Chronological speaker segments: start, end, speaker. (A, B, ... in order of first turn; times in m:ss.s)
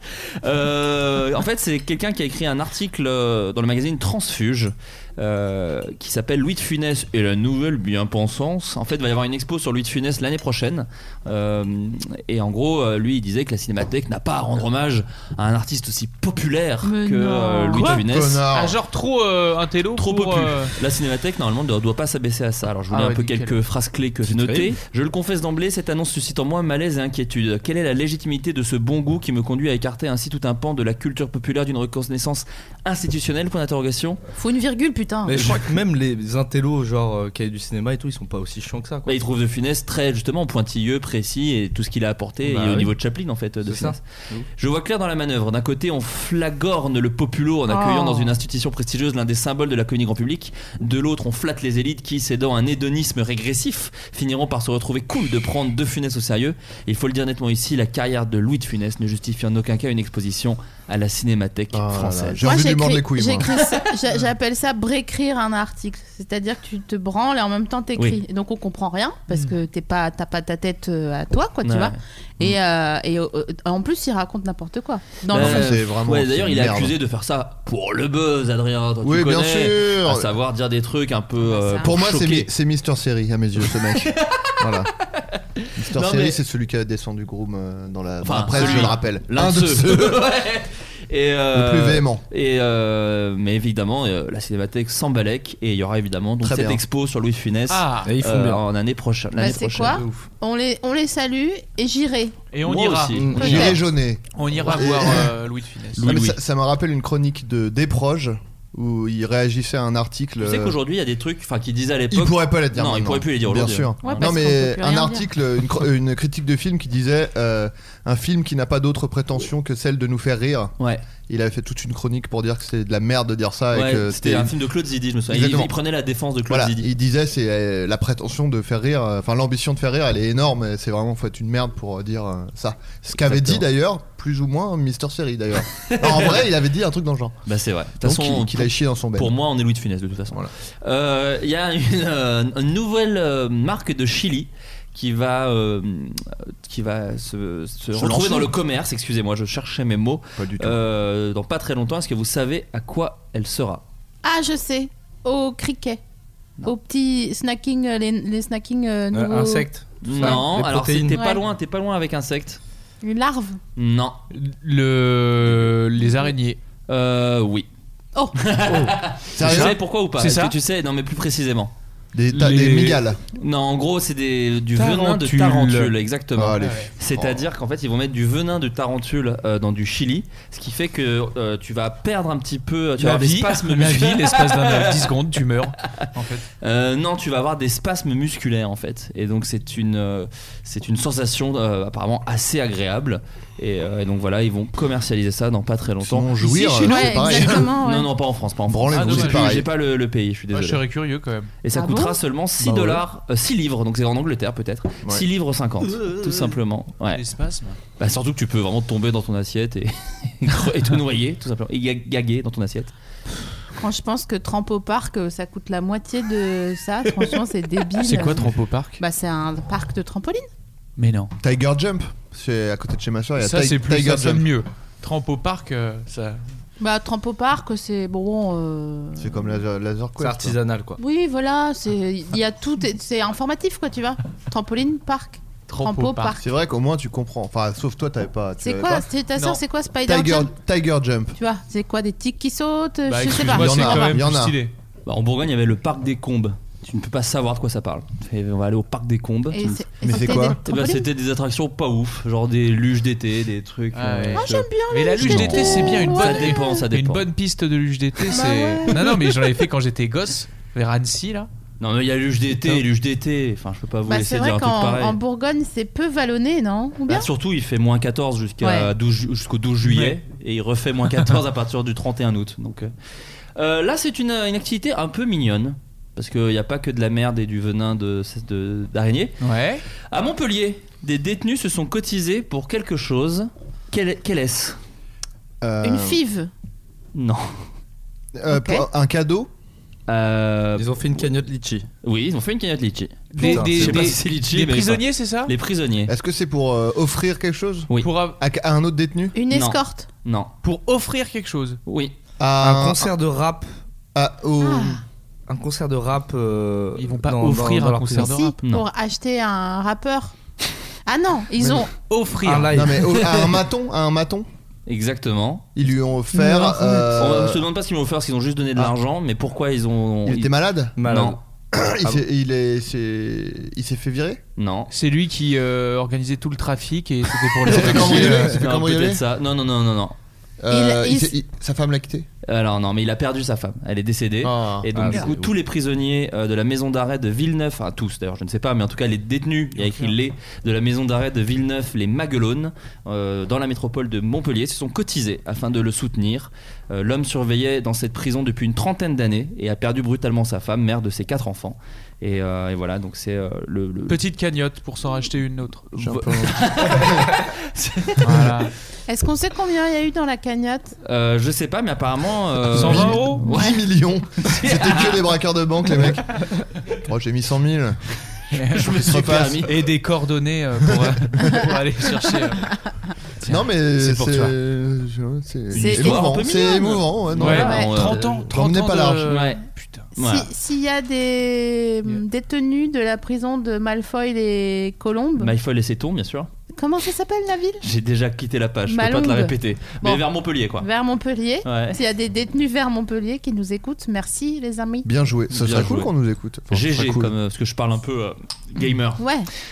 0:00.4-0:18.4 A
0:16.8-0:17.9 B
0:17.7-0:20.7 C
0:17.8-0:18.8 D
0:20.0-0:34.2 A
0:22.9-0:23.6 C
0:24.3-0:24.7 E
0:34.4-0:35.4 B
0:35.2-0:39.1 E
0:39.0-0:44.0 A
0:42.4-0:42.9 E
0:43.6-0:44.4 E
0:44.6-1:02.4 A
0:47.7-0:48.3 B
1:01.7-1:03.5 D
1:02.4-1:15.7 B
1:03.4-1:03.7 A
1:11.6-1:12.0 A
1:15.3-1:22.5 A
1:15.3-1:16.9 D
1:19.0-1:20.3 D
1:21.4-1:21.9 B
1:21.8-1:24.9 D
1:23.9-1:24.5 A
1:25.6-1:26.4 A
1:25.8-1:30.2 D
1:28.2-1:40.0 A
1:31.5-1:32.2 D
1:36.4-1:36.8 D
1:37.7-1:38.1 C
1:38.0-1:38.6 E
1:39.4-1:42.4 B
1:40.0-1:40.2 E
1:42.5-1:43.8 C
1:42.6-1:43.7 A
1:43.2-1:43.6 E
1:43.3-1:45.3 D
1:43.4-1:43.8 B
1:44.3-1:46.2 C
1:46.0-1:46.4 A
1:46.0-1:50.8 D
1:50.4-1:54.3 A
1:52.1-2:00.7 D
1:54.0-1:55.2 B
2:00.8-2:01.0 A
2:01.3-2:04.5 D
2:03.7-2:06.9 A
2:05.3-2:05.7 D
2:06.5-2:17.4 D
2:13.2-2:13.6 A
2:15.9-2:16.4 A
2:17.5-2:33.8 A
2:18.0-2:19.3 D
2:27.9-2:28.5 D
2:30.4-2:30.8 D
2:34.2-2:36.0 B
2:36.6-2:39.7 B
2:39.1-2:41.2 E
2:40.0-2:42.6 A
2:40.2-2:40.4 B
2:41.1-2:41.4 B
2:43.0-2:43.6 B
2:43.8-2:44.2 A
2:44.3-2:46.6 C
2:46.9-2:47.7 A
2:48.3-2:51.7 A
2:48.6-2:48.9 E
2:49.4-2:49.8 D
2:49.4-2:50.5 C
2:52.1-2:53.2 D
2:52.3-2:53.0 C
2:53.3-3:05.1 A
2:54.7-2:55.9 C
2:56.3-2:57.4 D
2:56.5-2:56.9 C
3:03.0-3:06.4 C
3:06.6-3:16.3 A
3:16.0-3:17.7 D
3:16.4-3:17.6 C
3:16.8-3:18.1 B
3:17.2-3:20.8 A
3:18.7-3:19.7 D
3:18.9-3:19.6 C
3:20.5-3:21.5 C
3:21.6-3:27.2 A
3:21.7-3:22.2 B
3:22.6-3:23.0 E
3:25.9-3:27.8 C
3:28.0-3:32.9 A
3:33.8-3:40.5 B
3:38.0-3:39.0 C
3:41.0-3:41.3 C
3:41.4-3:44.5 D
3:43.4-3:46.4 C
3:46.8-3:49.6 B
3:49.2-3:50.6 D
3:50.2-3:51.0 E
3:51.0-3:56.4 B
3:55.7-3:56.4 C
3:56.4-3:59.1 D
3:58.6-4:00.5 B
4:00.0-4:01.4 D
4:01.4-4:04.1 B
4:03.0-4:04.7 C
4:03.4-4:04.6 D
4:05.0-4:17.3 A
4:09.5-4:11.0 B
4:10.0-4:10.6 D
4:13.9-4:21.5 C
4:14.3-4:16.8 B
4:18.3-4:19.3 B
4:21.8-4:25.2 A
4:22.5-4:22.8 C
4:24.1-4:27.3 B
4:27.1-4:32.9 A
4:28.6-4:28.9 B
4:29.8-4:30.2 C
4:33.6-4:39.4 A
4:39.4-4:39.8 C
4:40.1-4:44.8 A
4:45.6-4:46.2 D
4:45.8-4:46.5 B
4:47.1-4:47.7 A
4:48.3-4:49.5 D
4:48.5-4:48.8 B
4:50.1-4:51.3 A
4:50.8-4:51.8 E
4:52.0-4:56.1 A
4:53.3-4:55.5 C
4:53.4-4:54.2 E
4:56.0-4:59.3 D
4:57.9-4:58.4 C
4:59.3-5:00.1 B
4:59.5-5:00.5 A
5:00.6-5:01.8 C
5:01.8-5:02.1 A
5:02.4-5:03.1 D
5:02.6-5:03.7 E
5:04.1-5:05.0 D
5:04.6-5:05.0 B
5:05.5-5:08.3 E
5:07.0-5:08.6 C
5:08.3-5:10.3 B
5:11.0-5:11.9 B
5:11.6-5:11.9 D
5:12.1-5:13.3 C
5:12.4-5:13.3 E
5:12.7-5:14.4 D
5:14.9-5:15.7 A
5:15.7-5:17.6 D
5:16.4-5:16.8 C
5:17.1-5:21.4 A
5:20.2-5:20.9 D
5:21.0-5:21.4 E
5:21.7-5:24.4 D
5:24.6-5:24.9 A
5:24.9-5:28.5 C
5:27.6-5:29.2 D
5:27.7-5:30.1 A
5:28.2-5:28.6 E
5:30.6-5:32.3 D
5:30.7-5:31.3 B
5:32.4-5:54.2 A
5:34.4-5:34.9 D
5:34.9-5:35.5 E
5:35.0-5:35.3 C
5:39.8-5:40.1 C
5:54.1-5:56.3 C
5:56.0-5:57.2 D
5:56.0-5:58.5 A
5:58.2-5:58.7 C
5:58.2-5:58.5 D
5:59.1-6:01.0 B
6:01.0-6:03.8 A
6:02.6-6:03.4 C
6:02.7-6:06.4 D
6:03.5-6:03.7 B
6:04.5-6:05.2 A
6:07.0-6:08.0 D
6:08.5-6:12.8 C
6:08.7-6:09.8 A
6:09.0-6:09.7 D
6:10.8-6:11.2 D
6:13.4-6:14.5 C
6:13.4-6:19.3 D
6:15.7-6:18.4 A
6:15.7-6:16.8 B
6:17.4-6:20.1 C
6:17.5-6:17.9 B
6:19.3-6:19.6 A
6:20.1-6:25.5 B
6:20.2-6:20.5 A
6:25.4-6:26.5 A
6:26.7-6:27.8 B
6:27.8-6:30.9 A
6:28.9-6:30.2 B
6:30.8-6:35.1 B
6:31.6-6:32.0 A
6:35.0-6:37.3 D
6:35.5-6:36.1 A
6:36.7-6:39.2 A
6:39.2-6:39.5 B